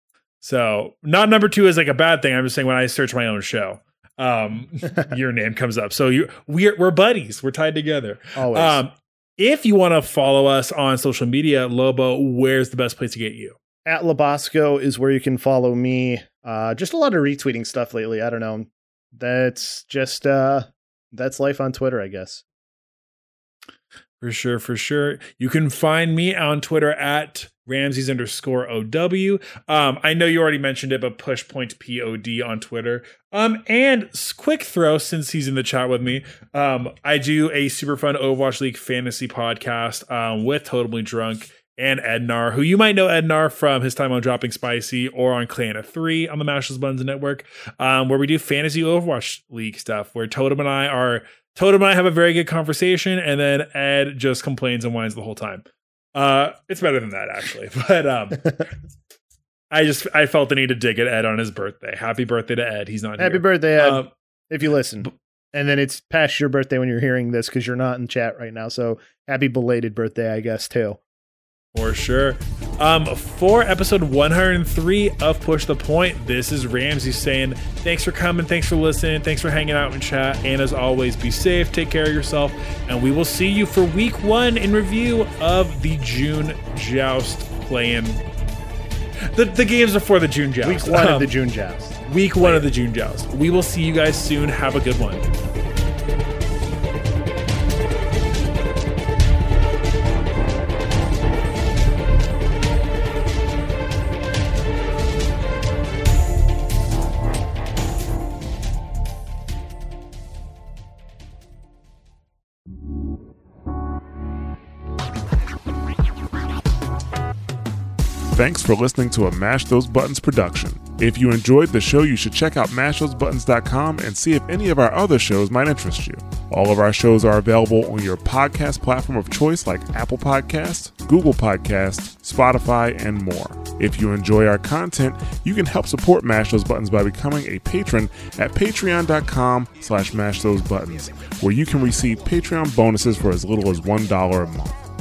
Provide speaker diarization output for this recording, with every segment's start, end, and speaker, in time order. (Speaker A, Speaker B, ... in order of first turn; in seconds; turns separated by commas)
Speaker A: 0.4-13.6, Speaker B: 8.4-8.8, Speaker B: 13.8-22.4, Speaker A: 24.2-55.6, Speaker A: 56.1-58.7, Speaker A: 59.7-64.1, Speaker B: 63.2-71.0, Speaker A: 71.7-88.2, Speaker A: 89.3-91.3, Speaker B: 90.6-92.7, Speaker A: 92.0-95.3, Speaker C: 118.3-144.8